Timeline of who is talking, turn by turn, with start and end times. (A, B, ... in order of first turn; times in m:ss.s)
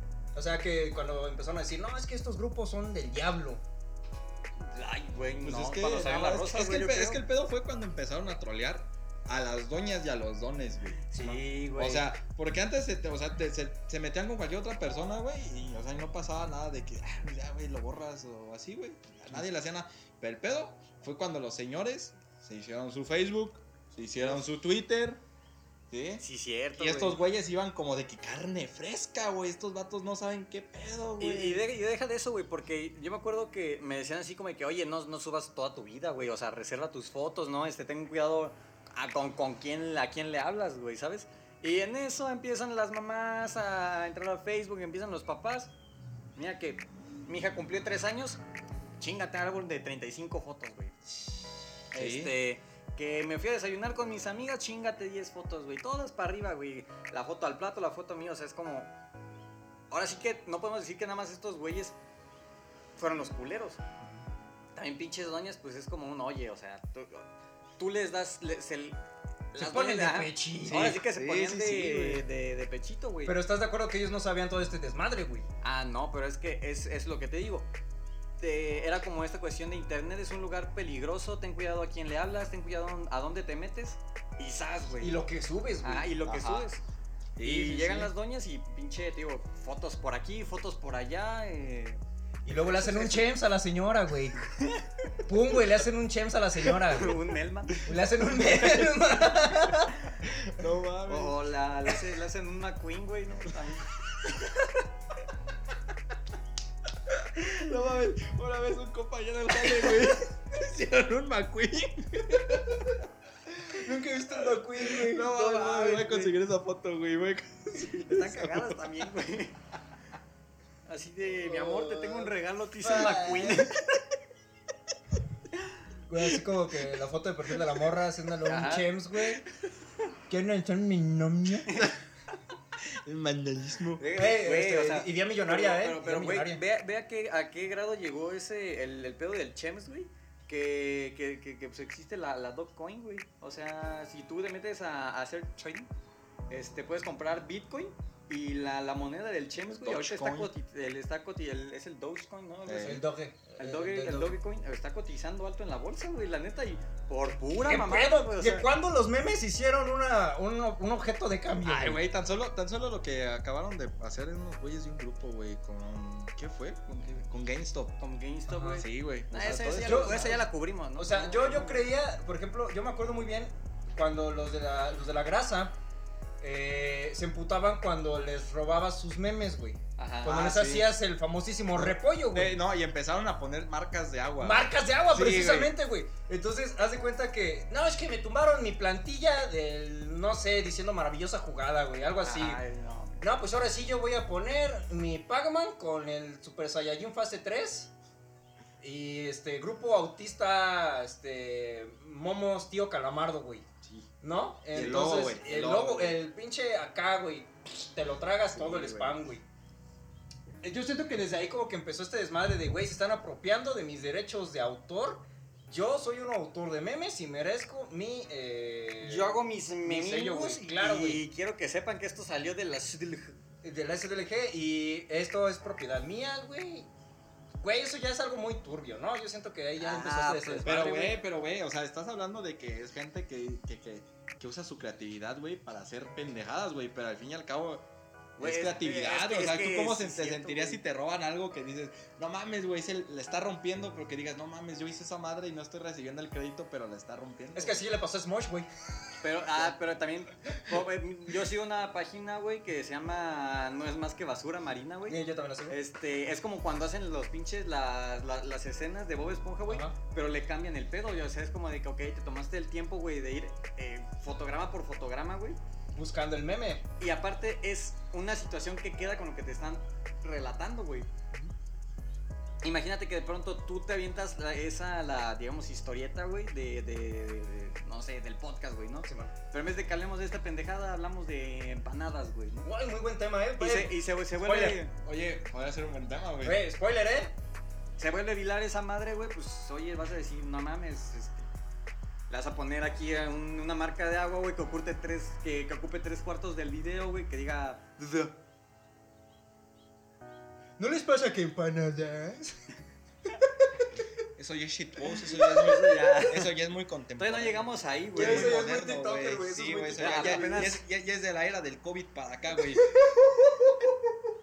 0:00.4-0:03.6 A
0:04.6-0:07.2 B
0:05.4-0:11.2 C
0:11.1-0:12.1 B
0:11.8-0:25.2 C
0:25.9-0:26.2 C
0:26.2-0:27.2 B
0:26.8-0:31.7 C
0:31.2-0:45.7 B
0:46.4-0:48.4 B
0:49.0-0:51.0 B
0:51.9-0:58.9 B
0:51.9-0:52.4 C
0:59.9-1:02.0 B
1:03.0-1:03.8 B
1:04.8-1:07.3 B
1:07.8-1:09.0 B
1:09.5-1:13.4 B
1:09.6-1:11.0 A
1:10.6-1:12.2 C
1:13.2-1:15.5 A
1:15.6-1:17.7 B
1:18.4-1:25.2 B
1:25.0-1:26.3 A
1:25.8-1:26.8 B
1:26.2-1:26.7 C
1:27.4-1:28.1 C
1:27.4-1:32.0 B
1:32.4-1:34.4 A
1:32.6-1:33.2 B
1:34.5-1:34.8 B
1:35.3-1:37.2 A
1:36.8-1:37.8 B
1:37.8-1:40.0 A
1:40.3-1:41.4 C
1:41.1-1:44.6 B
1:47.1-1:53.0 C
1:53.6-1:56.3 A
1:54.3-1:58.8 C
1:58.0-1:59.6 B
2:00.9-2:03.8 B
2:01.3-2:03.7 A
2:06.1-2:09.4 A
2:08.4-2:08.9 B
2:10.3-2:11.8 A
2:12.8-2:14.0 C
2:14.0-2:25.9 B
2:14.2-2:16.6 A
2:26.5-2:38.7 B
2:29.7-2:30.5 C
2:32.6-2:33.0 C
2:32.8-2:34.4 A
2:37.6-2:42.0 A
2:41.6-2:48.0 C
2:46.9-2:47.3 B
2:48.0-2:51.9 B
2:48.5-2:48.8 A
2:48.8-2:50.4 C
2:49.8-2:55.8 A
2:56.4-3:02.6 A
3:00.0-3:00.4 B
3:00.2-3:00.9 C
3:01.8-3:05.7 C
3:04.4-3:12.6 A
3:12.2-3:13.3 B
3:13.2-3:17.9 A
3:18.8-3:23.7 A
3:23.8-3:24.1 C
3:24.2-3:29.4 A
3:24.7-3:26.2 C
3:28.5-3:29.2 C
3:30.6-3:41.2 A
3:39.0-3:43.4 B
3:43.6-3:46.9 A
3:47.6-3:50.8 A
3:49.8-3:51.2 B
3:50.6-3:57.9 C
3:58.4-4:00.8 B
3:58.4-4:07.8 C
4:07.6-4:08.7 A
4:09.2-4:25.6 B
4:15.1-4:15.8 A
4:19.7-4:20.0 A
4:26.0-4:26.8 A
4:27.0-4:31.1 B
4:32.6-4:42.7 B
4:39.1-4:39.3 A
4:42.6-4:44.8 A
4:43.6-4:44.9 B
4:45.0-4:46.6 C
4:46.4-4:47.3 A
4:48.0-4:51.5 B
4:52.3-4:58.4 B
5:00.8-5:02.6 A
5:04.2-5:13.2 C
5:05.3-5:06.5 B
5:07.2-5:08.7 B
5:08.2-5:10.7 A
5:10.0-5:10.8 B
5:12.8-5:13.9 A